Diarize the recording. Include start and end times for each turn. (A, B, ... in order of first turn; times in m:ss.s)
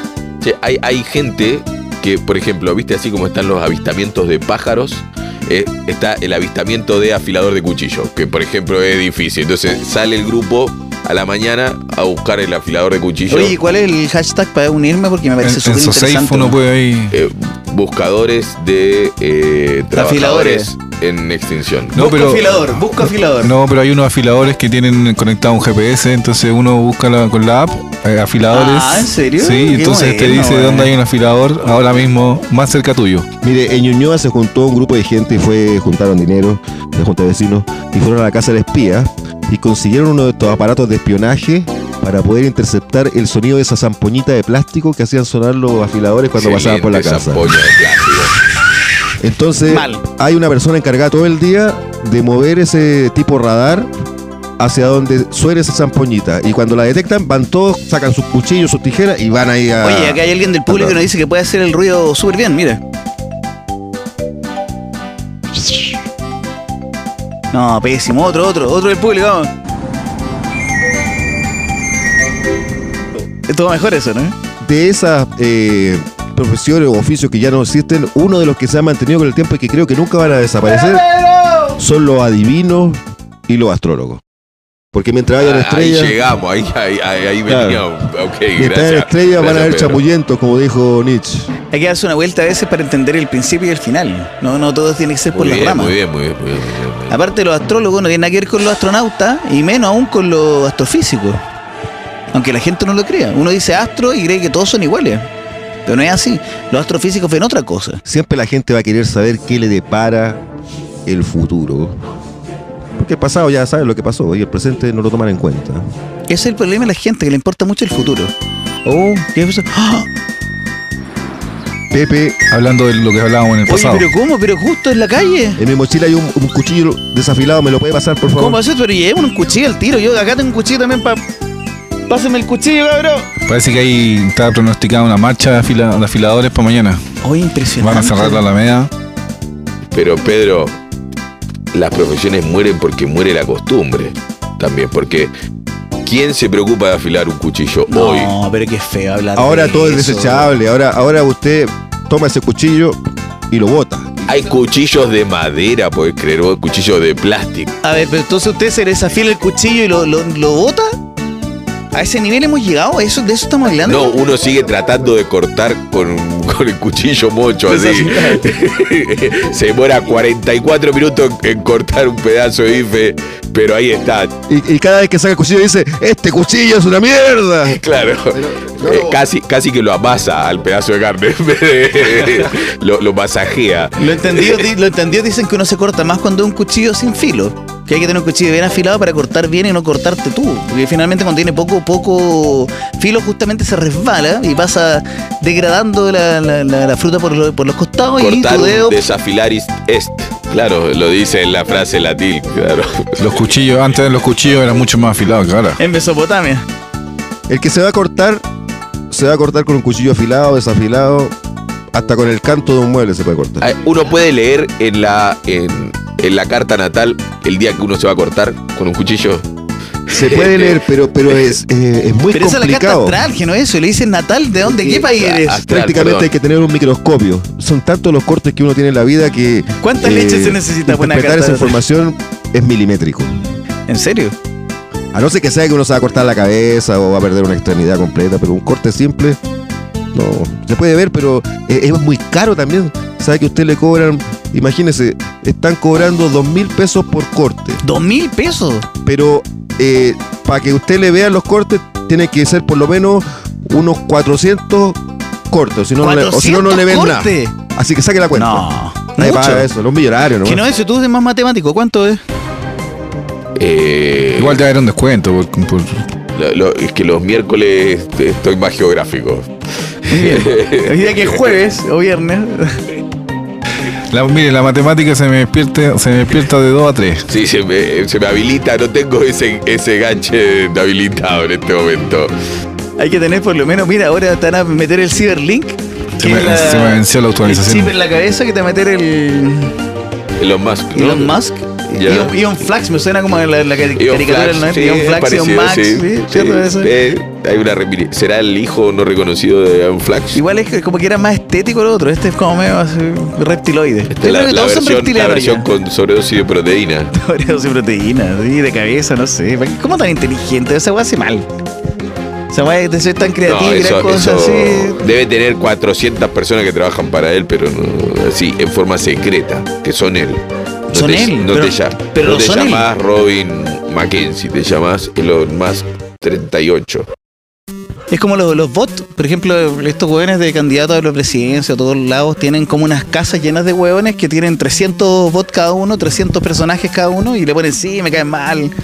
0:00.4-0:13.6 A
0:13.3-0:16.6 B
0:15.4-0:17.2 C
0:17.1-0:22.0 A
0:19.9-0:20.7 B
0:21.9-0:33.3 C
0:22.0-0:23.5 B
0:28.5-0:30.9 B
0:33.4-0:47.5 D
0:46.3-0:48.3 A
0:49.2-0:53.9 D
0:49.7-0:50.0 B
0:54.6-1:01.0 D
0:59.8-1:02.8 B
1:05.6-1:05.9 B
1:07.5-1:09.5 B
1:13.4-1:14.3 B
1:14.6-1:21.0 D
1:20.7-1:21.8 B
1:21.8-1:24.2 D
1:24.9-1:26.1 D
1:25.4-1:30.0 A
1:27.5-1:27.8 D
1:28.6-1:31.5 D
1:31.7-1:35.9 B
1:35.3-1:37.2 A
1:37.1-1:41.4 B
1:42.3-1:45.3 B
1:45.8-1:48.0 B
1:48.0-1:50.4 D
1:51.0-1:52.0 D
1:53.0-1:55.8 D
1:56.3-1:58.3 B
1:58.8-2:00.1 B
2:01.9-2:02.4 D
2:02.5-2:04.1 C
2:03.6-2:05.6 B
2:05.6-2:08.6 D
2:08.3-2:11.2 B
2:12.1-2:13.3 B
2:13.5-2:17.0 C
2:17.2-2:18.4 B
2:17.8-2:18.9 C
2:19.9-2:20.8 A
2:21.7-2:25.3 A
2:26.0-2:28.3 A
2:27.9-2:30.5 B
2:29.3-2:33.0 D
2:33.5-2:34.4 D
2:34.3-2:37.7 A
2:37.8-2:40.9 B
2:41.9-2:44.1 B
2:43.8-2:54.3 A
2:47.7-2:48.5 B
2:54.5-2:57.8 D
2:57.6-3:04.7 A
2:58.3-2:59.2 D
3:04.0-3:19.0 B
3:18.2-3:23.4 A
3:23.2-3:25.8 C
3:25.8-3:26.6 B
3:27.5-3:28.4 D
3:29.1-3:31.3 D
3:31.9-3:33.6 D
3:33.6-3:39.4 A
3:40.1-3:40.8 A
3:40.1-3:43.2 D
3:42.3-3:45.6 B
3:44.6-3:53.4 D
3:45.2-3:46.3 A
3:49.8-3:51.8 B
3:53.9-3:54.3 B
3:55.1-3:59.4 D
4:00.1-4:07.8 D
4:07.8-4:08.9 B
4:09.0-4:20.6 D
4:16.0-4:17.5 B
4:18.3-4:19.7 B
4:20.4-4:22.2 B
4:23.6-4:24.6 A
4:24.4-4:26.0 C
4:26.3-4:29.5 A
4:30.1-4:31.5 A
4:30.1-4:32.8 B
4:34.1-4:37.2 C
4:37.3-4:42.3 A
4:43.0-4:49.7 B
4:46.2-4:47.9 C
4:50.4-4:51.4 A
4:50.9-4:56.9 B
4:51.9-4:52.3 A
4:53.9-5:00.4 A
5:00.3-5:05.6 B
5:04.1-5:07.1 A
5:07.1-5:11.5 B
5:12.5-5:15.0 B
5:13.4-5:27.1 A
5:20.9-5:22.9 B
5:28.1-5:38.7 B